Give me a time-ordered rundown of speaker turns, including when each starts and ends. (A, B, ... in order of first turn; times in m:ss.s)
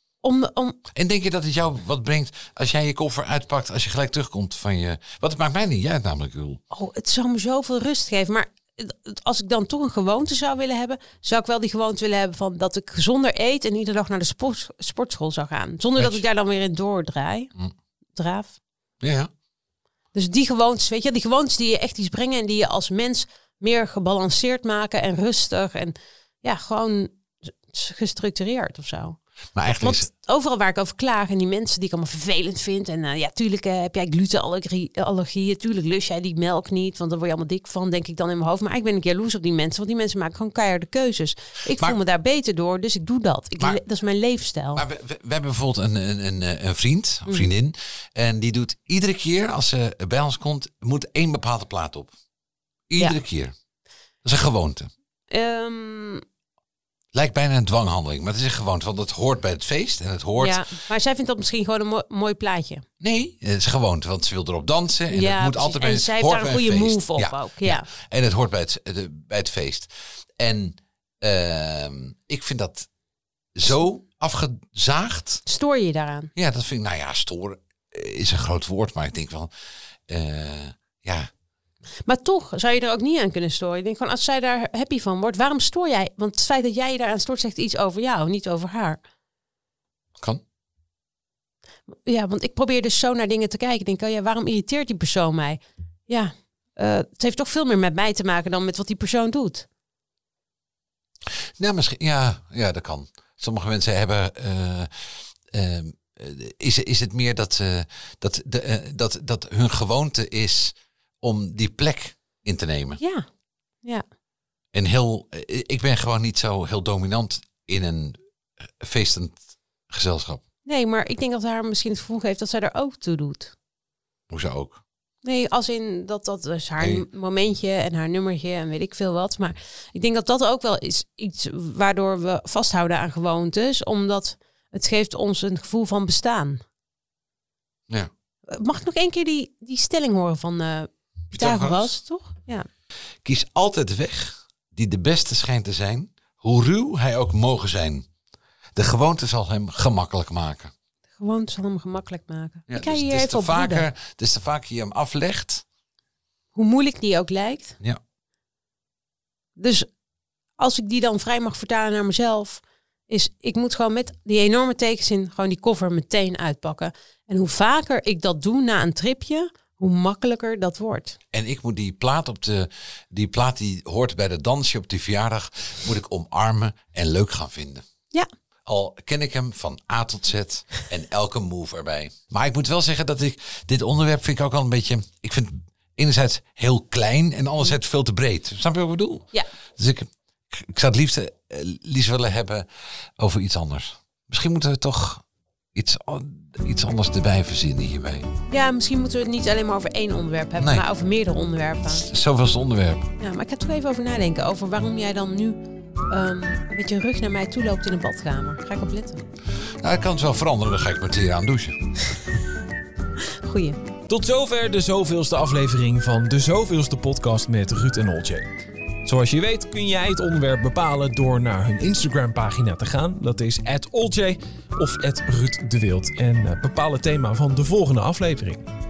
0:00.2-0:00.8 A
0:00.9-0:06.6 B
0:06.7-0:17.5 A
0:16.0-0:16.2 B
0:18.2-0:18.6 A
0:19.0-0:19.3 B
0:20.1-0:29.2 A
0:29.5-0:30.1 B
0:29.8-0:44.8 A
0:41.7-0:42.0 B
0:44.7-0:52.1 B
0:52.9-0:53.5 B
0:54.2-0:54.9 B
0:55.3-0:56.2 A
0:57.1-1:00.6 B
1:00.4-1:02.8 A
1:03.0-1:12.9 B
1:05.1-1:07.9 A
1:13.5-1:15.4 B
1:15.4-1:16.3 A
1:16.4-1:19.5 B
1:20.1-1:21.3 B
1:22.0-1:29.0 A
1:31.9-1:39.7 A
1:41.6-1:53.0 B
1:53.0-1:53.2 A
1:54.7-2:00.4 B
2:00.6-2:03.5 A
2:04.3-2:04.8 B
2:05.2-2:16.6 A
2:06.8-2:07.0 B
2:18.5-2:22.7 A
2:21.3-2:21.9 B
2:23.2-2:28.1 B
2:28.7-2:30.7 B
2:31.2-2:33.8 A
2:32.7-2:35.6 B
2:36.5-2:37.8 A
2:39.6-2:39.9 A
2:40.6-2:51.2 A
2:51.3-2:57.8 B
2:58.6-3:12.6 B
3:13.2-3:18.3 B
3:18.5-3:22.0 A
3:20.6-3:20.8 B
3:21.9-3:23.1 B
3:23.2-3:25.6 A
3:26.1-3:29.2 A
3:29.8-3:31.8 B
3:33.4-3:33.8 A
3:34.1-3:38.5 C
3:39.0-3:48.6 C